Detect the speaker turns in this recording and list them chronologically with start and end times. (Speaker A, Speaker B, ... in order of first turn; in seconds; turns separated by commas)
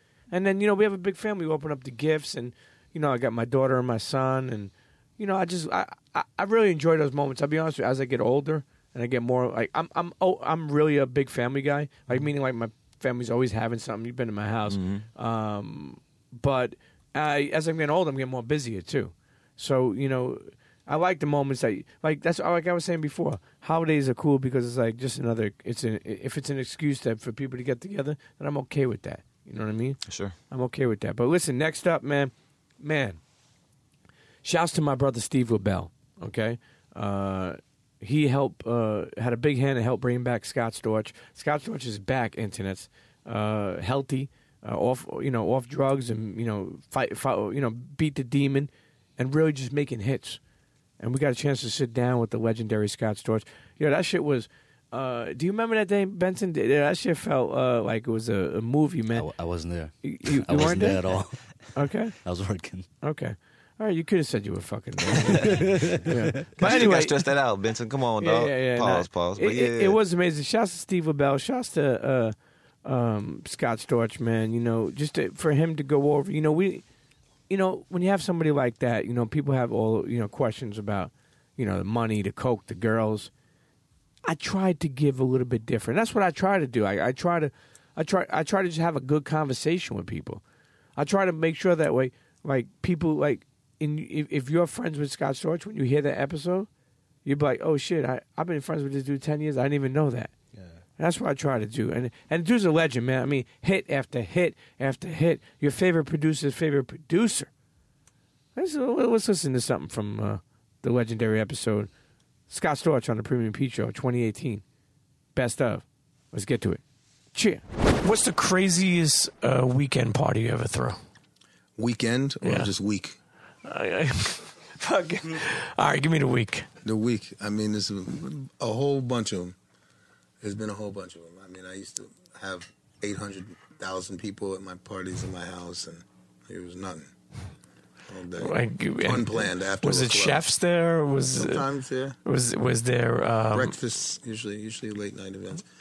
Speaker A: 0.3-33.2, Speaker B: 14.7-15.1, Speaker B: 30.1-30.4, Speaker A: 34.4-50.4, Speaker A: 51.0-59.3, Speaker C: 59.1-61.5, Speaker A: 59.9-61.0, Speaker A: 61.8-62.2, Speaker C: 62.2-62.9, Speaker A: 63.0-67.2, Speaker B: 65.2-65.8, Speaker B: 66.6-70.0, Speaker A: 68.2-76.8, Speaker A: 77.5-83.3, Speaker A: 84.2-90.4, Speaker A: 91.0-96.7, Speaker A: 97.2-100.3, Speaker A: 101.0-107.5, Speaker A: 108.5-111.9, Speaker A: 112.5-114.6, Speaker A: 115.3-116.8, Speaker A: 117.3-117.6, Speaker D: 118.0-121.0, Speaker E: 121.8-123.2, Speaker D: 122.4-122.7, Speaker D: 123.7-126.7, Speaker E: 126.8-129.6, Speaker E: 130.4-137.1, Speaker E: 138.1-140.5, Speaker D: 138.4-141.7, Speaker E: 141.3-142.2, Speaker D: 142.2-143.8, Speaker E: 143.5-145.6